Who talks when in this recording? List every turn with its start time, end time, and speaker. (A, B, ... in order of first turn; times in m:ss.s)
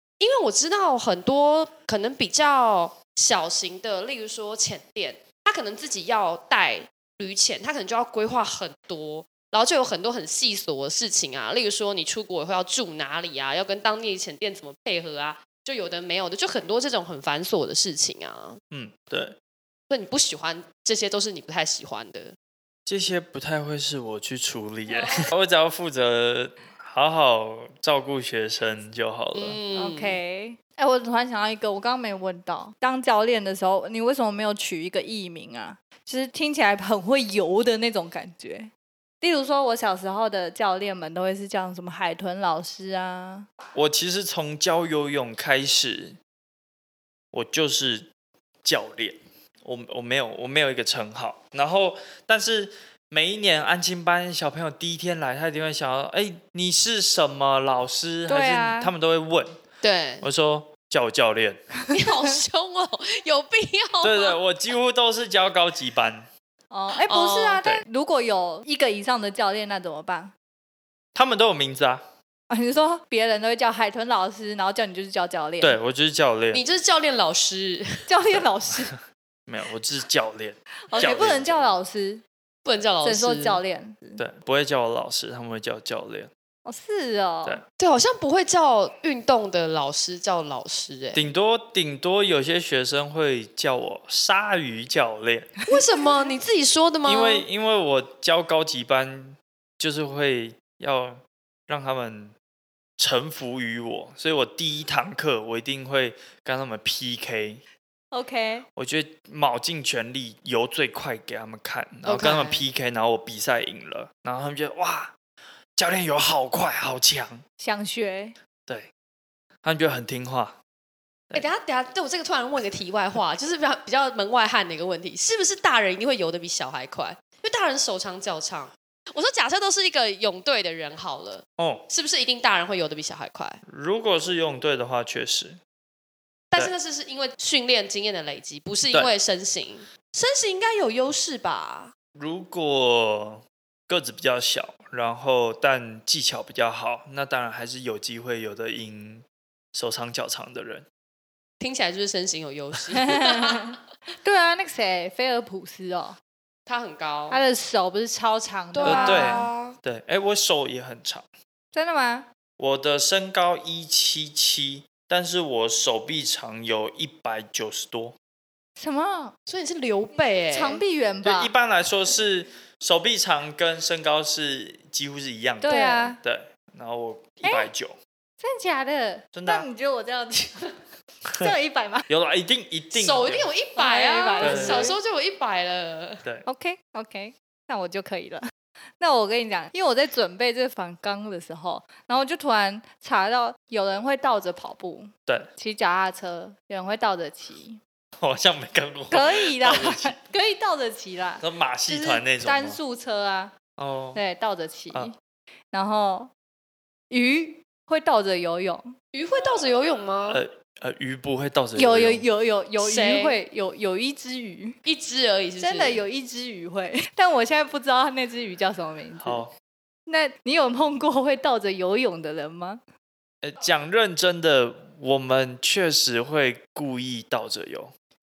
0:00.2-0:18.6 A
0:18.7-0:19.4 B
0:19.9-0:22.4 A
0:22.9-0:29.6 B
0:24.9-0:25.3 A
0:29.4-0:30.2 A
0:29.7-0:43.5 C
0:43.7-0:46.2 B
0:47.3-0:48.1 B
0:48.6-0:59.6 B
0:58.3-0:58.9 C
0:59.8-1:00.3 A
1:00.2-1:01.6 B
1:01.9-1:04.4 A
1:04.0-1:06.3 B
1:06.7-1:10.3 C
1:07.1-1:07.6 A
1:11.2-1:12.0 B
1:12.5-1:15.8 C
1:15.6-1:16.6 B
1:16.5-1:18.1 A
1:18.1-1:18.9 C
1:19.5-1:21.7 B
1:20.9-1:22.2 C
1:22.6-1:23.6 A
1:23.0-1:24.2 C
1:24.2-1:26.3 B
1:26.6-1:27.6 C
1:27.8-1:31.2 A
1:31.1-1:35.5 B
1:35.7-1:37.4 A
1:37.0-1:42.4 B
1:43.0-1:47.6 B
1:48.1-1:48.7 C
1:48.8-1:55.2 B
1:52.0-1:52.6 A
1:55.8-1:57.4 B
1:57.6-1:58.4 C
1:59.6-2:00.6 B
2:01.3-2:13.6 A
2:11.6-2:11.8 B
2:13.7-2:15.6 B
2:16.5-2:21.9 A
2:22.2-2:30.9 B
2:31.6-2:33.8 A
2:33.0-2:36.2 C
2:36.7-2:37.4 A
2:37.3-2:39.5 C
2:38.7-2:39.8 A
2:38.8-2:41.3 B
2:41.7-2:42.3 C
2:42.6-2:48.2 B
2:48.8-2:49.4 C
2:49.5-2:50.8 A
2:50.5-2:51.5 C
2:51.2-2:58.0 B
2:55.6-2:56.2 C
2:55.7-2:56.1 A
2:57.4-2:57.7 C
2:58.4-3:00.7 C
2:59.3-2:59.7 B
3:01.4-3:02.1 C
3:02.1-3:03.5 B
3:02.9-3:06.2 A
3:03.8-3:05.0 C
3:04.4-3:04.9 B
3:06.5-3:17.8 C
3:18.2-3:20.2 B
3:19.1-3:23.5 C
3:21.4-3:22.8 B
3:23.8-3:24.2 B
3:24.2-3:25.2 C
3:25.7-3:26.3 C
3:27.1-3:29.0 C
3:29.1-3:30.4 A
3:30.3-3:32.2 B
3:31.8-3:34.8 C
3:32.8-3:33.4 A
3:34.8-3:36.0 A
3:35.6-3:39.4 C
3:39.2-3:39.5 B
3:40.1-3:42.8 C
3:43.4-3:47.9 B